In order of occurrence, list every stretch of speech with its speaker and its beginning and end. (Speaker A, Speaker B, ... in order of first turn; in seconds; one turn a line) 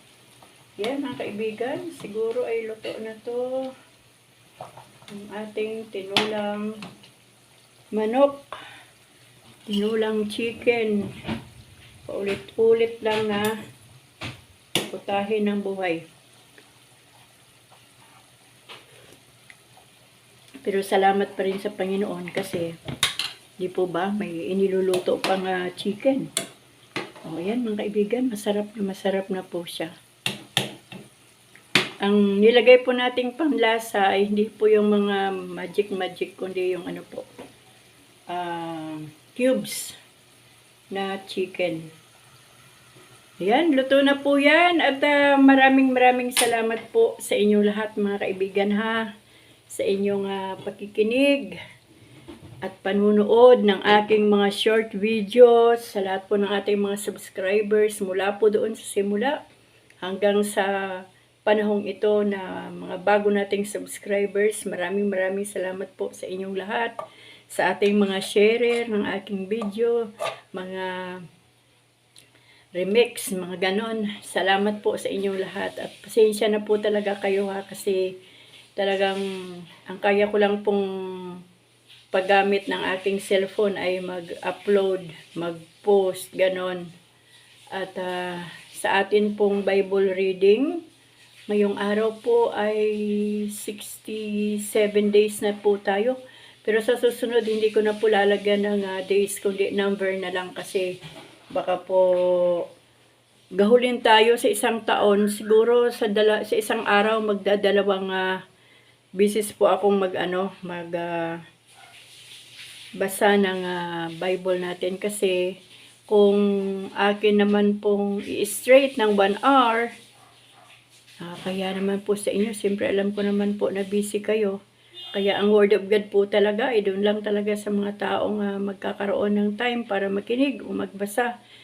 Speaker A: 0.8-3.7
Speaker A: 5.1-6.8
Speaker A: 8.0-8.5
Speaker A: 9.7-11.1
Speaker A: 12.1-13.5
Speaker A: 14.9-16.0
Speaker A: 20.6-22.8
Speaker A: 23.6-26.3
Speaker A: 27.3-29.9
Speaker A: 32.0-37.2
Speaker A: 38.3-40.0
Speaker A: 40.9-41.9
Speaker A: 43.4-49.1
Speaker A: 49.7-51.6
Speaker A: 52.6-59.4
Speaker A: 60.0-66.9
Speaker A: 67.5-70.0
Speaker A: 70.5-71.2
Speaker A: 72.8-78.1
Speaker A: 78.8-81.4
Speaker A: 82.1-86.9
Speaker A: 87.7-90.8
Speaker A: 91.5-100.9
Speaker A: 101.5-102.6
Speaker A: 103.6-108.3
Speaker A: 109.2-111.4
Speaker A: 113.0-115.4
Speaker A: 116.1-116.4
Speaker A: 117.0-119.9
Speaker A: 121.2-124.6
Speaker A: 125.2-131.3